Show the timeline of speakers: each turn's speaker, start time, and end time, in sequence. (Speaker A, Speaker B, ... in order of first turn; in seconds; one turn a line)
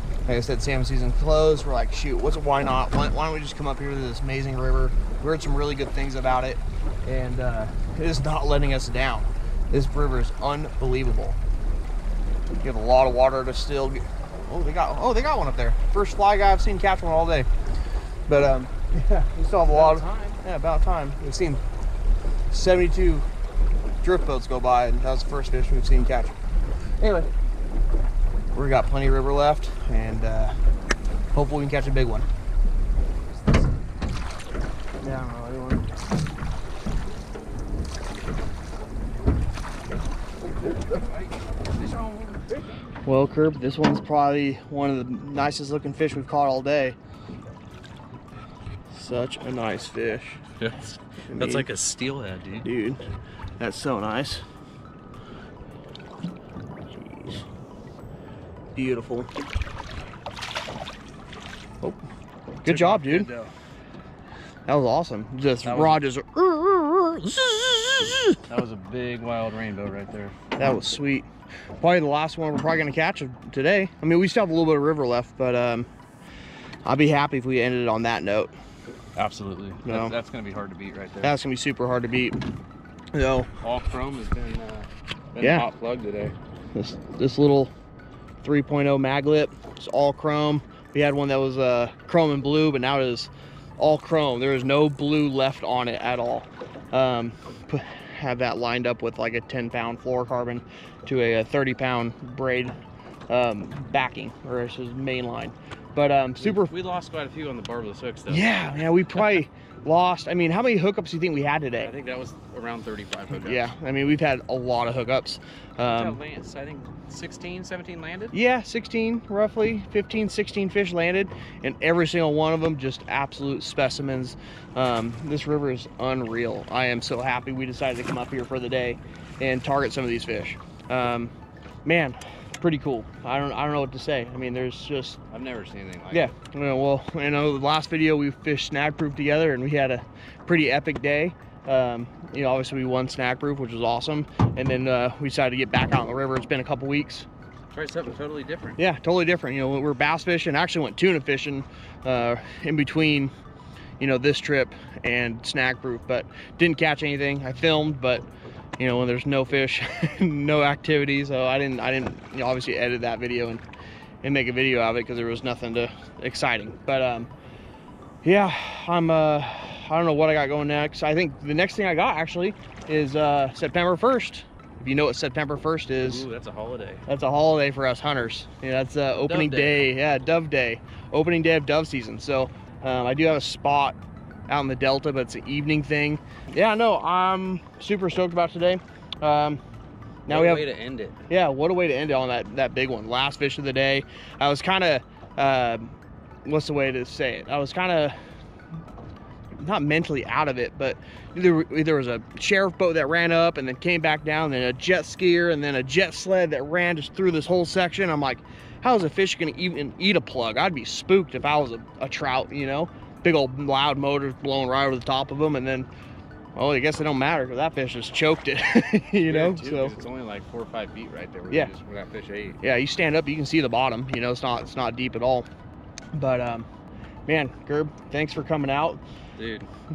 Speaker A: 0.2-11.4
Speaker A: 12.6-17.5
Speaker A: 18.3-21.6
Speaker B: 19.7-20.4
Speaker A: 22.5-23.3
Speaker A: 24.0-26.3
Speaker A: 27.0-27.3
Speaker A: 28.5-30.5
Speaker A: 31.3-32.3
Speaker A: 35.0-35.9
Speaker B: 40.6-42.6
Speaker A: 43.0-47.0
Speaker A: 48.9-50.4
Speaker B: 50.6-52.7
Speaker A: 51.3-51.7
Speaker A: 52.6-53.0
Speaker A: 53.6-54.4
Speaker A: 56.9-57.4
Speaker A: 58.7-59.3
Speaker A: 62.6-63.3
Speaker B: 62.6-63.5
Speaker A: 64.7-68.4
Speaker B: 65.6-66.0
Speaker B: 68.5-70.3
Speaker A: 70.6-71.3
Speaker A: 71.8-75.9
Speaker A: 76.8-78.5
Speaker B: 79.2-81.4
Speaker A: 79.8-80.1
Speaker A: 81.2-82.4
Speaker A: 83.1-83.5
Speaker B: 83.6-86.3
Speaker A: 85.4-85.7
Speaker A: 86.7-87.7
Speaker A: 88.4-102.7
Speaker A: 103.3-106.7
Speaker B: 106.4-108.5
Speaker A: 108.3-111.9
Speaker B: 111.8-113.7
Speaker A: 113.3-116.2
Speaker B: 115.9-118.3
Speaker A: 118.3-131.3
Speaker A: 131.8-135.2
Speaker B: 135.3-136.3
Speaker A: 136.1-147.3
Speaker B: 147.7-148.8
Speaker A: 148.8-153.3
Speaker A: 154.0-158.2
Speaker A: 158.8-163.6
Speaker A: 164.2-167.3
Speaker A: 168.2-176.2
Speaker B: 176.0-177.0
Speaker A: 177.1-184.0
Speaker B: 179.2-179.9
Speaker A: 184.5-189.6
Speaker A: 190.2-190.6
Speaker B: 190.3-191.2
Speaker A: 191.3-195.9
Speaker A: 196.4-198.2
Speaker A: 199.6-215.9
Speaker A: 216.6-219.9
Speaker B: 219.2-222.6
Speaker A: 222.6-225.5
Speaker A: 226.1-226.7
Speaker A: 227.2-229.0
Speaker B: 229.4-229.7